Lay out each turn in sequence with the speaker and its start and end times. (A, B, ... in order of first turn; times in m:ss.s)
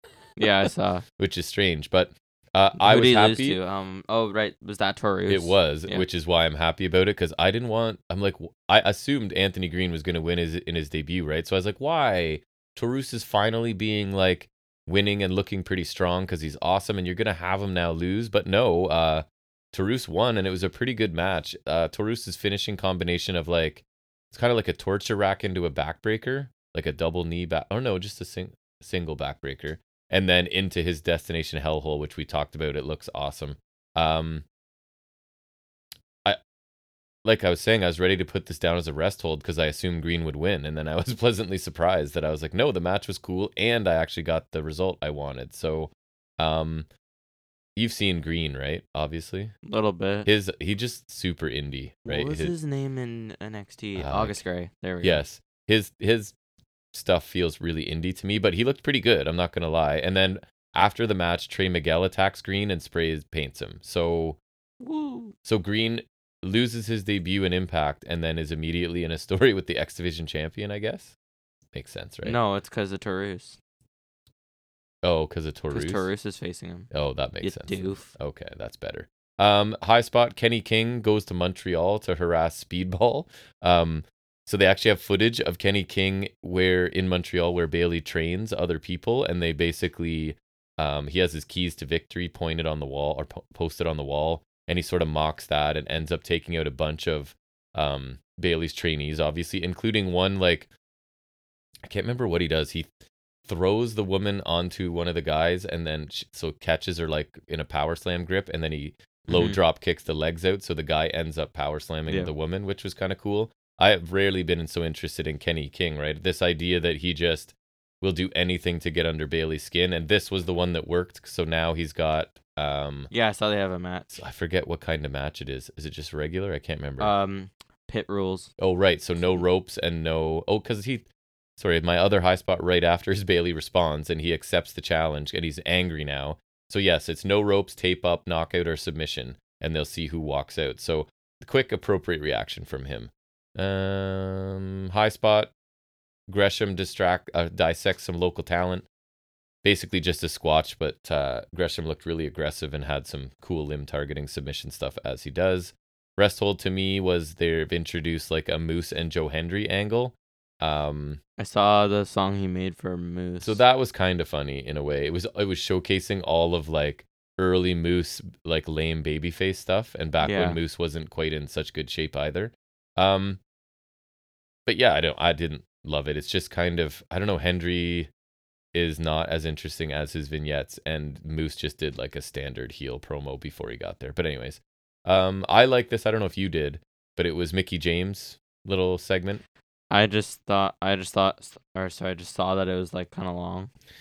0:00.4-0:01.0 A
0:01.2-0:03.6 B
0:02.8-0:06.0 A
0:05.3-0:34.4 B
0:37.2-0:46.9 B
0:47.8-0:49.5 B
0:49.6-0:50.3 A
0:50.2-0:52.5 B
0:52.0-0:55.2 A
0:54.0-0:54.4 B
0:55.0-0:56.3 B
0:56.9-1:04.4 B
1:04.8-1:05.3 A
1:05.4-1:11.1 B
1:11.7-1:12.4 B
1:12.2-1:13.6 A
1:15.0-1:16.1 B
1:15.7-1:16.9 A
1:16.9-1:40.7 B
1:17.4-1:18.1 A
1:41.9-1:42.9 B
1:43.4-2:03.1 B
1:49.3-1:49.6 A
1:52.1-1:52.3 A
2:03.1-2:04.2 A
2:04.1-2:07.1 B
2:07.0-2:08.5 A
2:08.6-2:25.5 B
2:26.3-2:28.8 B
2:29.6-2:41.2 B
2:41.4-2:43.6 A
2:43.4-2:53.4 B
2:50.2-2:50.6 A
2:54.6-2:58.1 B
2:58.7-3:09.4 B
3:09.9-3:13.7 A